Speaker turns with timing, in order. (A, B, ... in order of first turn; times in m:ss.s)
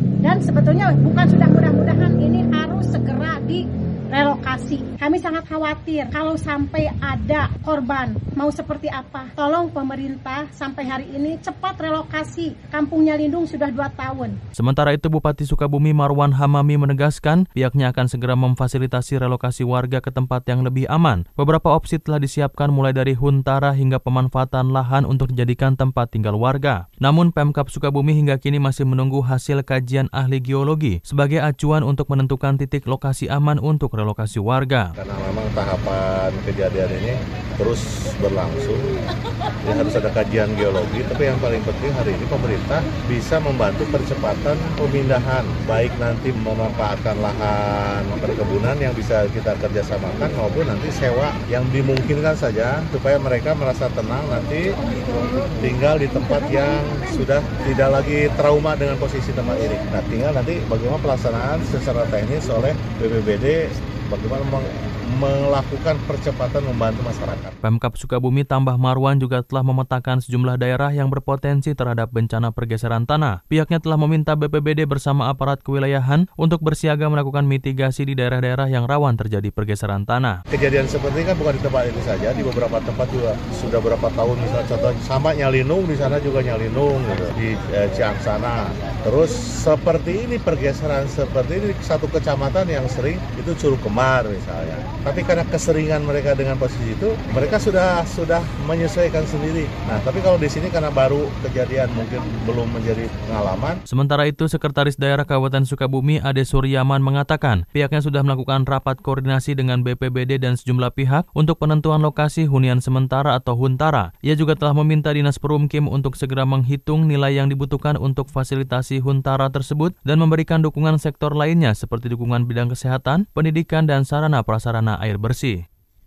0:00.2-0:14.4 A
0:14.6-0:34.9 B
0:35.0-0:38.8 C
0:39.6-0:54.8 C
0:55.5-1:07.6 C
1:07.6-1:20.4 B
1:20.5-1:43.8 C
1:43.9-2:05.6 B